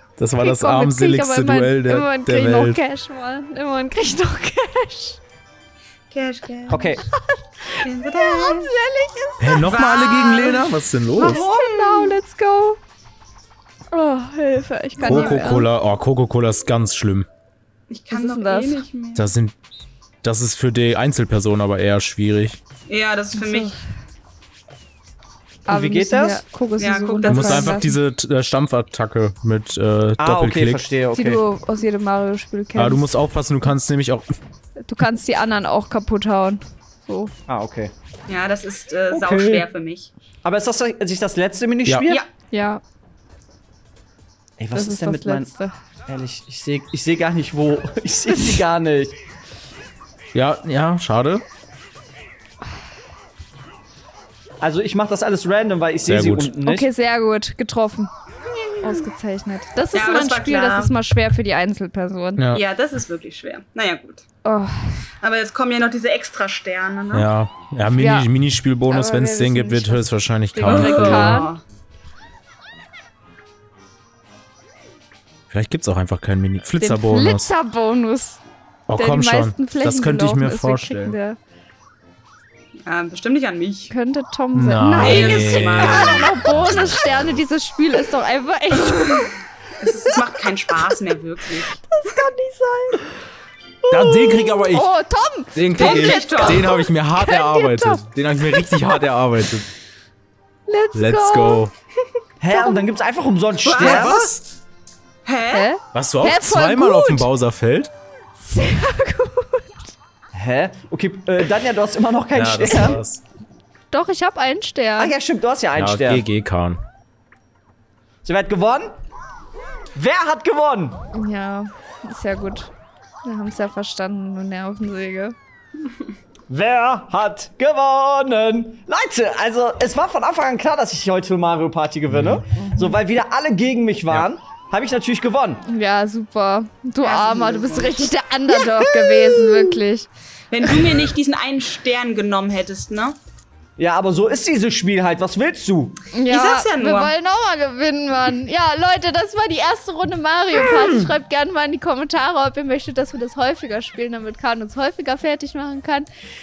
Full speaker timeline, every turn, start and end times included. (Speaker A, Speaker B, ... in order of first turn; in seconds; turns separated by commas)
Speaker A: 0.2-2.8, Speaker B: 0.4-5.2, Speaker C: 6.1-7.0, Speaker D: 6.7-7.0, Speaker B: 7.1-9.8, Speaker C: 7.8-8.7, Speaker A: 9.4-11.4, Speaker C: 9.7-12.2, Speaker B: 11.2-12.8, Speaker B: 13.9-15.7, Speaker C: 15.0-15.4, Speaker A: 15.0-17.3, Speaker C: 17.9-19.2, Speaker B: 18.1-18.8, Speaker A: 19.1-19.5, Speaker A: 20.2-22.6, Speaker C: 22.9-23.8, Speaker B: 23.4-23.8, Speaker B: 25.6-27.9, Speaker D: 25.7-26.4, Speaker C: 26.8-27.8, Speaker A: 27.2-30.8, Speaker D: 30.2-31.4, Speaker B: 31.1-33.1, Speaker A: 32.7-34.3, Speaker B: 34.8-37.3, Speaker D: 37.5-37.9, Speaker C: 38.3-40.1, Speaker D: 39.1-39.7, Speaker D: 40.4-42.2, Speaker B: 42.5-42.8, Speaker D: 44.6-45.5, Speaker B: 44.7-45.7, Speaker D: 46.1-49.2, Speaker A: 50.3-51.4, Speaker D: 54.6-56.9, Speaker A: 56.1-56.5, Speaker B: 56.6-58.1, Speaker B: 58.8-62.4, Speaker C: 59.9-60.9, Speaker A: 62.4-62.6, Speaker C: 62.5-64.2, Speaker B: 64.4-65.0, Speaker C: 65.2-67.3, Speaker A: 67.1-71.5, Speaker B: 68.0-68.3, Speaker B: 68.9-71.5, Speaker C: 70.6-71.6, Speaker A: 75.5-77.5, Speaker B: 76.8-78.4, Speaker A: 78.9-81.2, Speaker B: 79.0-81.4, Speaker C: 82.8-83.9, Speaker B: 83.9-89.3, Speaker A: 84.5-87.3, Speaker C: 85.0-86.6, Speaker C: 88.9-91.8, Speaker B: 91.9-93.1, Speaker D: 93.9-94.5, Speaker A: 93.9-94.9, Speaker B: 94.2-98.0, Speaker A: 95.5-99.7, Speaker C: 95.7-96.8, Speaker B: 100.7-101.6, Speaker A: 100.9-101.7, Speaker D: 102.4-104.3, Speaker B: 102.5-102.8, Speaker C: 103.6-104.4, Speaker A: 103.8-104.3, Speaker C: 105.2-105.7, Speaker B: 105.5-107.2, Speaker A: 105.9-107.9, Speaker B: 108.4-109.9, Speaker D: 110.3-113.0, Speaker A: 112.3-113.2, Speaker B: 113.9-115.1, Speaker D: 115.0-116.2, Speaker A: 115.7-116.8, Speaker D: 118.2-118.9, Speaker D: 119.9-121.0, Speaker B: 121.1-122.7, Speaker B: 123.2-125.3, Speaker D: 126.5-135.6, Speaker A: 132.1-132.4, Speaker B: 132.6-132.9, Speaker B: 135.7-140.1, Speaker C: 137.0-138.1, Speaker D: 138.5-139.8, Speaker C: 140.5-143.2, Speaker B: 140.6-141.0, Speaker D: 143.8-145.9, Speaker B: 146.1-156.1, Speaker C: 146.3-147.1